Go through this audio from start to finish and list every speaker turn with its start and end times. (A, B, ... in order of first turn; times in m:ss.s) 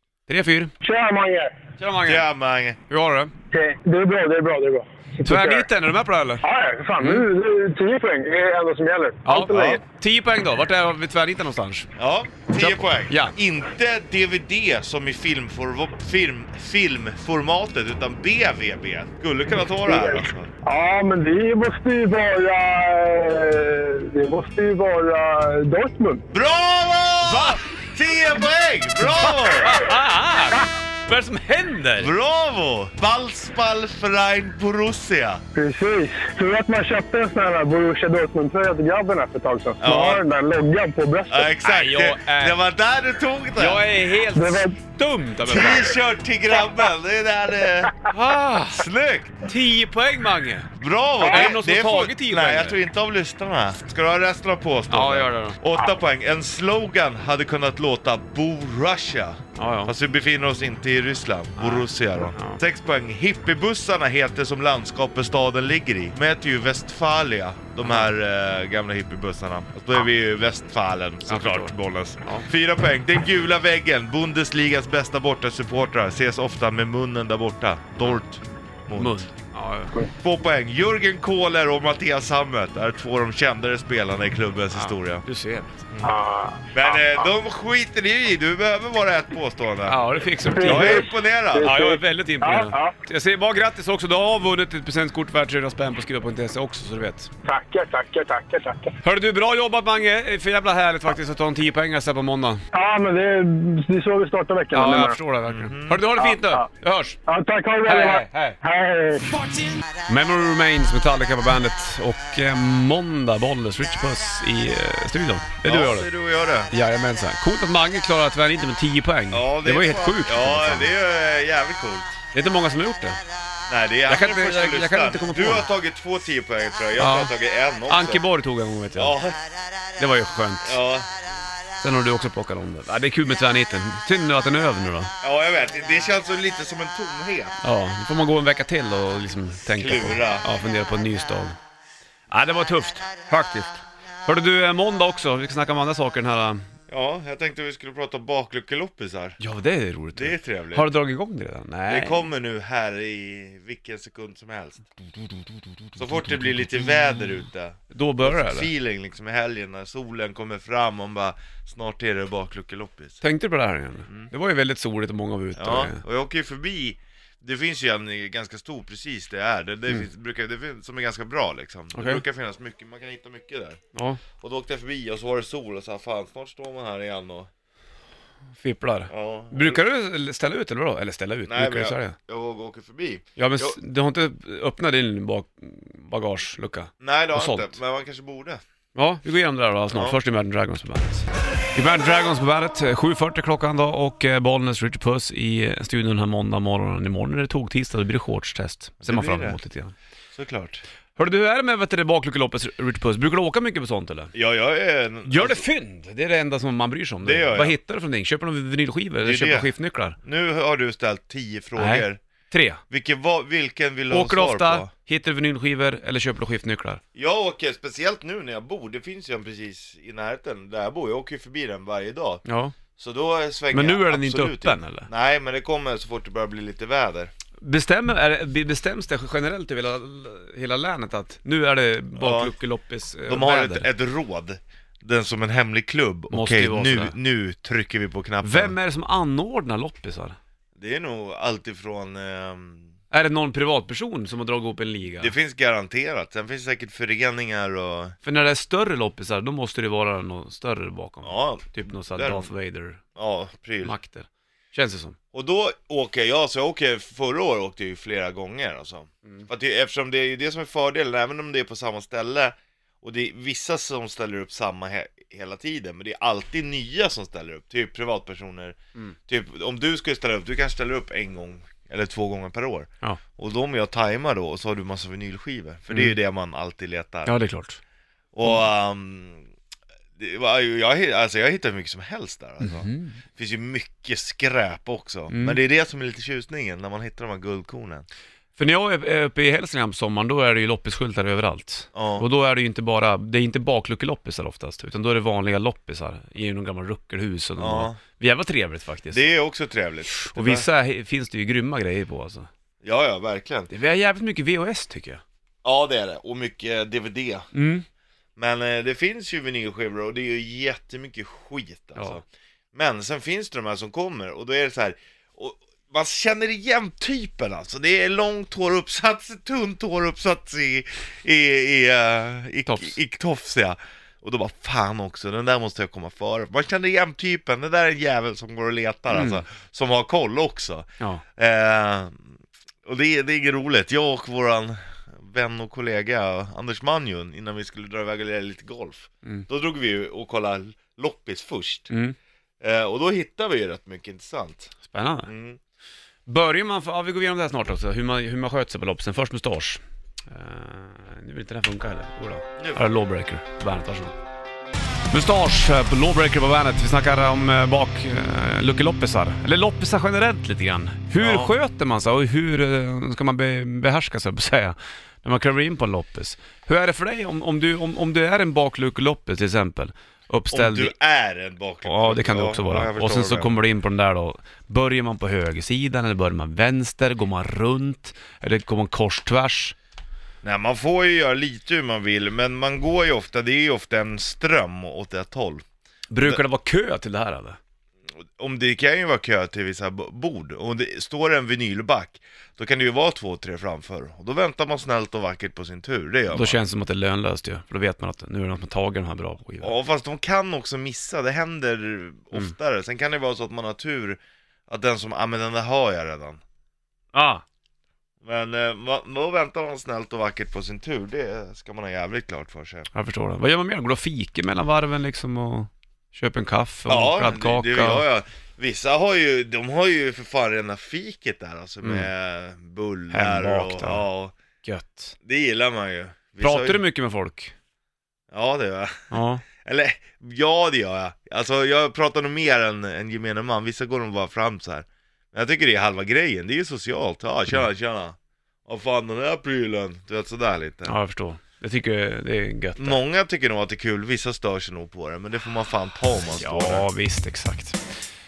0:00.3-0:00.7 A
0:00.8-0:01.5 B
0:01.8-0:02.3 A
0:02.0-0:02.8 C
0:02.9-0:03.3 A
0:03.5-0:05.7 B
0:05.2-0:06.4 A
0:06.4-0:09.8 B
0:07.0-0:07.3 A
0:09.2-0:11.9 A
0:09.3-0:09.8 C
0:12.0-0:20.5 C
0:12.6-0:13.4 A
0:19.9-0:26.2 B
0:26.3-0:29.8 C
0:27.2-0:27.6 A
0:29.2-0:32.1 A
0:32.0-0:35.4 C
0:35.5-0:41.5 B
0:39.8-0:40.2 C
0:41.3-0:43.8 C
0:41.6-0:42.6 A
0:43.6-0:45.9 A
0:44.3-0:44.8 B
0:45.5-0:48.0 C
0:48.1-0:48.9 A
0:48.7-0:49.5 C
0:49.5-0:50.7 A
0:50.8-1:19.2 C
0:51.2-0:52.8 A
0:54.9-0:55.6 A
0:59.6-0:59.9 A
1:01.6-1:02.6 A
1:07.8-1:08.1 A
1:11.3-1:12.5 A
1:18.9-1:20.0 A
1:20.2-1:25.2 C
1:24.7-1:25.8 A
1:26.0-1:26.9 B
1:26.7-1:30.0 C
1:29.9-1:31.1 A
1:30.5-1:33.0 B
1:30.6-1:31.7 C
1:31.6-1:37.3 A
1:37.4-1:39.0 B
1:39.0-1:42.6 A
1:42.7-1:45.2 B
1:44.7-1:47.2 A
1:45.5-1:46.0 C
1:46.2-1:46.6 B
1:47.3-1:49.4 B
1:47.9-1:48.6 A
1:50.1-1:56.1 A
1:55.6-1:56.7 C
1:56.7-2:00.9 A
1:59.3-2:02.2 C
2:02.3-2:03.2 A
2:03.7-2:08.2 C
2:04.1-2:05.6 A
2:07.0-2:07.3 A
2:07.9-2:09.2 A
2:08.9-2:09.4 C
2:10.0-2:10.8 A
2:10.6-2:11.1 C
2:11.8-2:15.1 A
2:15.2-2:17.5 C
2:17.6-2:21.6 A
2:19.7-2:20.5 C
2:22.3-2:26.6 A
2:26.9-2:29.4 C
2:29.4-2:32.3 A
2:30.1-2:30.9 C
2:31.9-2:34.9 C
2:36.0-2:43.2 C
2:37.9-2:38.7 A
2:43.2-2:46.0 A
2:45.6-2:53.8 C
2:51.9-2:52.2 A
2:53.9-2:54.2 A
2:54.4-2:57.5 C
2:58.6-3:02.2 A
2:59.1-2:59.8 C
3:01.5-3:03.8 C
3:03.4-3:07.8 A
3:07.0-3:08.6 C
3:09.0-3:19.9 A
3:09.9-3:10.2 C
3:19.0-3:19.6 C
3:20.3-3:20.8 C
3:21.2-3:24.3 A
3:24.3-3:25.6 C
3:25.3-3:30.2 A
3:27.2-3:27.8 C
3:29.2-3:29.7 C
3:30.2-3:32.2 C
3:31.8-3:32.8 A
3:32.9-3:34.9 C
3:34.1-3:37.0 A
3:37.2-3:42.4 C
3:42.4-3:42.8 A
3:43.0-3:47.3 C
3:43.7-3:45.1 A
3:47.6-3:53.9 A
3:52.2-3:52.6 C
3:53.3-3:58.8 C
3:56.3-3:57.2 A
3:58.4-4:00.4 A
4:00.8-4:02.9 C
4:03.1-4:05.3 A
4:05.2-4:08.2 C
4:08.2-4:13.0 A
4:11.2-4:12.5 C
4:13.2-4:14.0 C
4:13.8-4:15.2 A
4:15.3-4:28.8 C
4:29.3-4:37.3 C
4:35.9-4:36.2 A
4:37.3-4:37.8 A
4:38.3-4:39.5 C
4:40.2-4:48.0 C
4:42.6-4:43.2 A
4:45.3-4:45.6 A
4:48.6-4:59.3 A
4:51.9-4:52.3 C
4:57.6-4:58.0 C
4:59.1-5:00.7 C
5:00.1-5:02.5 A
5:02.8-5:03.7 C
5:03.7-5:05.2 A
5:05.6-5:07.5 C
5:07.5-5:07.8 A
5:08.4-5:12.2 C
5:12.7-5:32.2 C
5:22.7-5:23.0 A
5:29.1-5:29.4 A
5:32.8-5:41.9 C
5:41.9-5:42.2 A
5:42.6-5:44.7 C
5:44.9-5:45.3 A
5:45.2-5:45.6 C
5:46.3-5:54.2 A
5:52.6-5:52.9 C
5:55.1-6:10.9 A
6:01.2-6:01.6 C
6:10.5-6:13.6 C
6:11.8-6:19.8 A
6:20.4-6:25.6 C
6:26.1-6:27.6 A
6:28.4-6:36.6 C
6:36.3-6:39.7 A
6:39.6-6:46.4 C
6:47.1-6:47.4 A
6:48.2-6:52.9 C
6:52.9-6:58.0 A
6:56.9-7:04.3 C
7:03.1-7:04.1 A
7:04.6-7:05.2 A
7:05.2-7:06.8 C
7:06.4-7:07.5 A
7:08.3-7:09.1 C
7:09.1-7:09.4 A
7:09.6-7:21.0 C
7:20.9-7:23.0 A
7:22.8-7:26.9 C
7:26.3-7:27.8 A